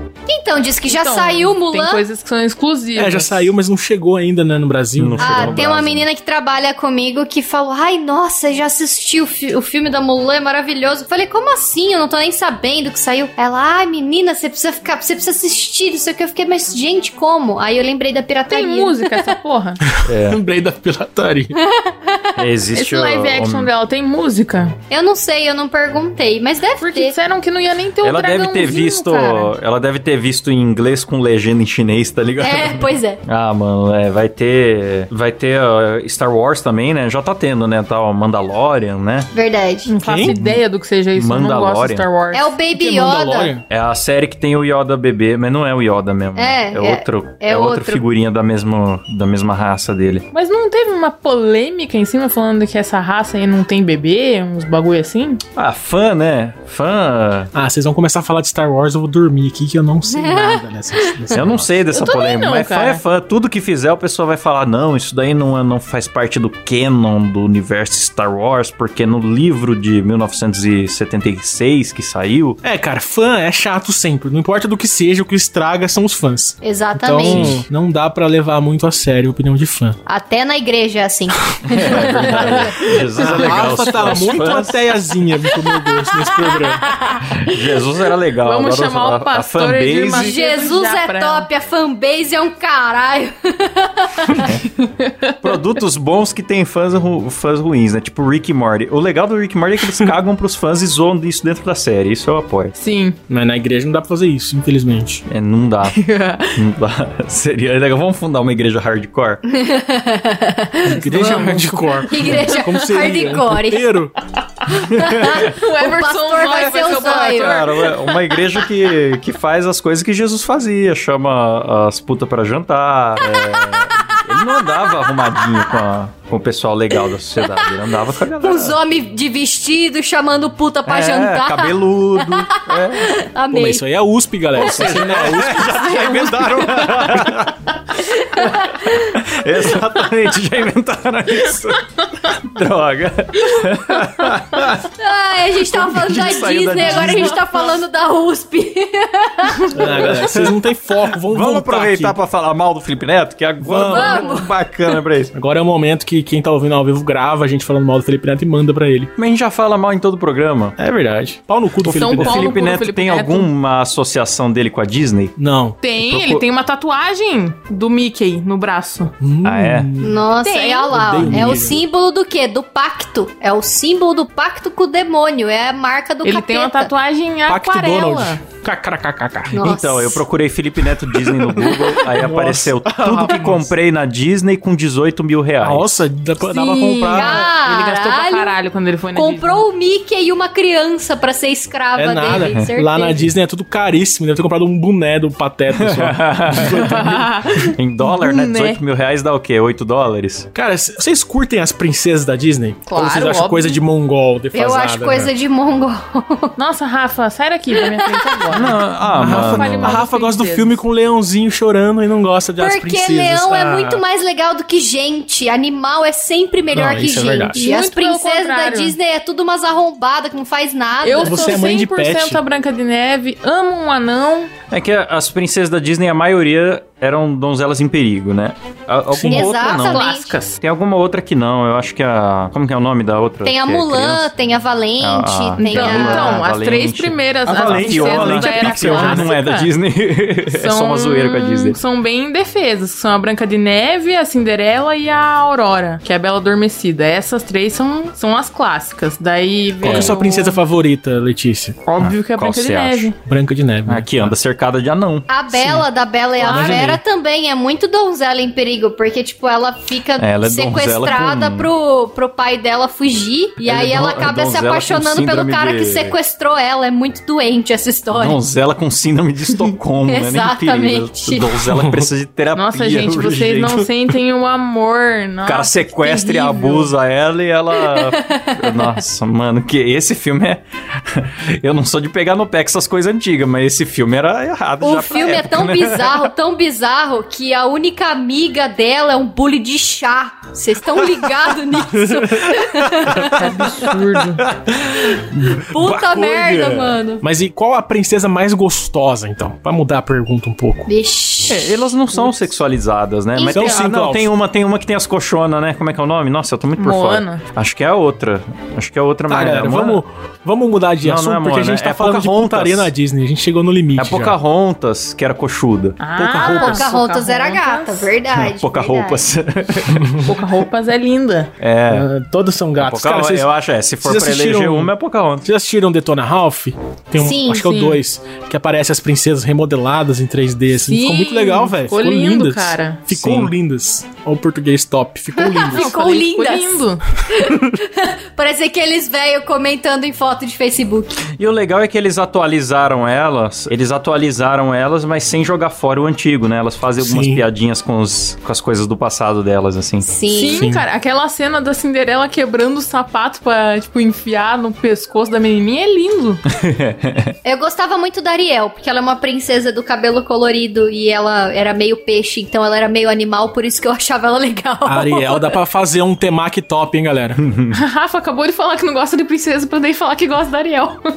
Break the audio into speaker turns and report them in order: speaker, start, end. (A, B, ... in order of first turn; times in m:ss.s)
0:00.3-0:02.0 A
0:00.9-0:03.5 B
0:03.0-0:05.7 C
0:05.0-0:06.1 D
0:05.2-0:19.3 A
0:18.5-0:19.8 B
0:20.1-0:20.4 D
0:20.1-0:21.6 C
0:21.6-0:22.4 A
0:22.4-0:23.7 D
0:22.7-0:24.8 B
0:24.9-0:27.1 A
0:26.8-0:29.6 B
0:28.0-0:39.3 D
0:32.4-0:33.2 A
0:39.3-0:39.9 A
0:39.9-0:42.5 B
0:40.0-0:40.4 C
0:40.2-0:40.6 D
0:41.2-0:42.1 D
0:42.3-0:43.5 A
0:42.7-0:43.6 C
0:43.7-0:50.3 D
0:46.4-0:48.0 A
0:50.3-0:55.4 B
0:55.6-0:57.5 D
0:57.5-1:01.8 C
1:00.1-1:00.6 A
1:01.3-1:12.6 D
1:01.9-1:03.0 B
1:12.6-1:20.0 C
1:16.6-1:17.6 A
1:17.2-1:17.6 D
1:20.1-1:22.7 A
1:21.7-1:24.9 D
1:22.9-1:26.9 C
1:23.3-1:23.7 B
1:25.7-1:27.3 A
1:27.2-1:30.3 D
1:28.4-1:31.5 B
1:30.1-1:34.5 A
1:34.3-1:34.8 D
1:34.9-1:35.3 B
1:35.4-1:42.7 D
1:42.8-1:43.2 B
1:43.3-1:45.2 C
1:45.3-1:49.4 D
1:45.8-1:46.6 B
1:49.5-1:53.9 A
1:50.8-1:54.2 C
1:51.0-1:52.3 B
1:54.7-1:57.7 A
1:54.8-1:55.5 D
1:55.2-1:58.2 B
1:57.0-2:08.8 D
2:03.4-2:03.7 A
2:05.1-2:05.4 A
2:08.4-2:13.8 A
2:10.9-2:13.2 D
2:13.5-2:16.2 C
2:14.5-2:24.9 D
2:14.7-2:17.1 A
2:18.0-2:19.2 A
2:24.9-2:30.1 A
2:25.6-2:27.7 D
2:29.7-2:32.2 C
2:29.8-2:30.6 D
2:31.2-2:35.3 D
2:33.6-2:34.2 C
2:33.9-2:34.5 A
2:35.3-2:39.1 C
2:39.2-2:40.8 D
2:40.8-2:42.5 C
2:41.8-2:45.4 D
2:42.0-2:43.5 B
2:45.4-2:45.8 C
2:45.8-2:49.1 B
2:46.0-2:46.4 D
2:49.2-2:50.2 C
2:49.4-2:49.9 D
2:50.0-2:56.9 A
2:50.4-2:51.3 B
2:50.9-2:51.8 C
2:56.2-2:58.4 B
2:57.5-2:59.6 C
2:59.5-3:00.2 A
2:59.6-3:06.0 D
3:01.1-3:03.8 C
3:05.6-3:07.5 C
3:06.4-3:09.6 B
3:07.1-3:08.5 A
3:09.1-3:13.3 A
3:12.0-3:17.3 C
3:15.8-3:20.5 D
3:16.7-3:18.8 B
3:20.6-3:25.3 C
3:22.9-3:23.8 B
3:24.5-3:26.6 A
3:26.6-3:30.8 B
3:27.8-3:28.4 A
3:28.5-3:30.0 D
3:29.1-3:34.0 C
3:32.6-3:41.6 A
3:36.7-3:37.6 C
3:37.6-3:39.0 B
3:41.0-3:44.5 B
3:41.2-3:42.4 C
3:44.7-3:50.1 D
3:49.1-3:49.5 C
3:49.3-3:50.3 A
3:49.5-3:50.6 B
3:50.6-3:54.3 D
3:53.4-3:56.4 A
3:55.0-4:01.8 D
3:55.6-3:59.7 B
3:57.4-3:59.3 C
4:00.5-4:10.6 B
4:09.8-4:11.8 C
4:09.9-4:10.1 D
4:11.9-4:13.2 B
4:12.0-4:13.1 D
4:13.2-4:14.4 C
4:13.9-4:15.3 D
4:15.3-4:28.4 A
4:15.5-4:15.8 C
4:16.4-4:17.0 C
4:16.4-4:16.8 B
4:20.2-4:21.7 D
4:23.6-4:26.2 D
4:28.1-4:33.9 D
4:30.1-4:31.7 A
4:31.7-4:32.0 C
4:32.6-4:36.9 B
4:35.5-4:46.3 D
4:37.8-4:39.0 A
4:44.8-4:53.6 A
4:52.0-4:52.6 C
4:53.1-4:57.0 D
4:53.4-4:54.2 C
4:53.4-4:54.4 B
4:55.3-4:55.7 C
4:55.6-4:57.2 A
4:57.2-5:00.9 C
5:00.9-5:01.9 A
5:01.5-5:10.0 D
5:03.4-5:03.8 A
5:03.5-5:04.3 C
5:06.8-5:07.4 B
5:09.3-5:14.4 C
5:11.0-5:12.9 D
5:14.0-5:16.0 D
5:16.0-5:18.1 B
5:16.2-5:16.9 C
5:16.4-5:19.2 A
5:18.5-5:20.3 D
5:20.2-5:21.5 B
5:21.6-5:22.1 D
5:21.9-5:23.5 C
5:22.8-5:25.5 D
5:24.0-5:24.9 C
5:25.4-5:35.9 C
5:27.2-5:27.5 A
5:27.2-5:28.0 B
5:30.8-5:33.0 B
5:33.1-5:33.5 D
5:35.4-5:41.2 A
5:35.7-5:37.0 B
5:41.4-5:50.1 D
5:47.0-5:47.4 C
5:50.0-5:50.6 A
5:50.3-5:56.4 B
5:50.5-5:50.8 C
5:56.5-5:57.3 D
5:57.4-6:05.5 A
6:04.9-6:07.4 C
6:07.4-6:07.8 D
6:07.7-6:11.0 B